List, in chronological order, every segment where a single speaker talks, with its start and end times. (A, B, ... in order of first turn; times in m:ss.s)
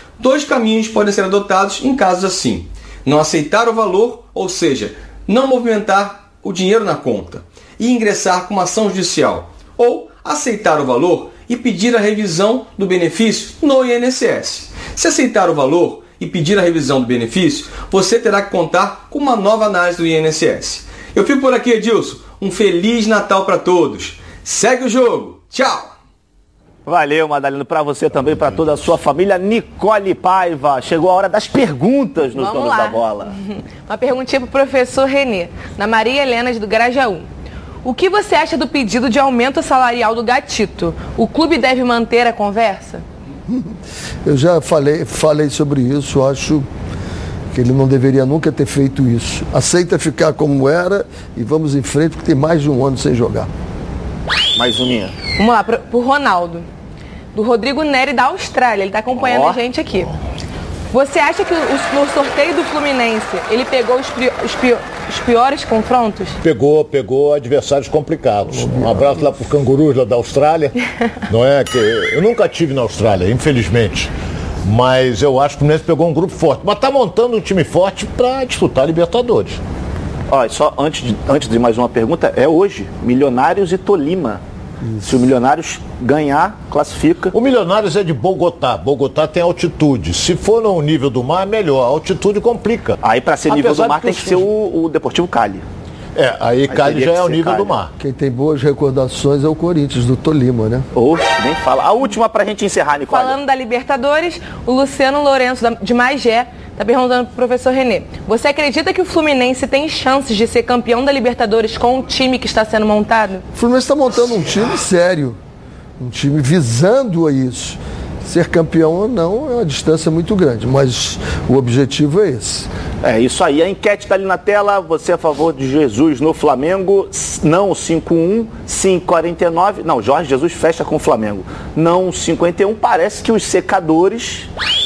0:00.2-0:25.9 A
0:26.8-0:33.3 B
0:32.3-0:37.2 C
0:37.8-0:43.0 C
0:43.5-0:46.7 D
0:47.5-0:53.5 D
0:54.5-0:55.2 B
0:55.4-0:56.7 C
0:57.3-1:00.1 C
0:59.1-0:59.6 B
1:00.9-1:06.4 C
1:06.4-1:10.7 E
1:11.3-1:14.1 E
1:14.6-1:19.6 E
1:20.3-1:24.4 B
1:25.0-1:27.3 B
1:27.3-1:33.0 E
1:33.0-1:35.6 B
1:33.5-1:34.5 E
1:36.1-1:37.9 E
1:36.7-1:37.8 B
1:38.0-1:40.8 D
1:40.9-1:43.4 B
1:43.1-1:53.4 C
1:53.5-1:55.4 D
1:56.0-2:02.7 D
2:03.0-2:14.5 B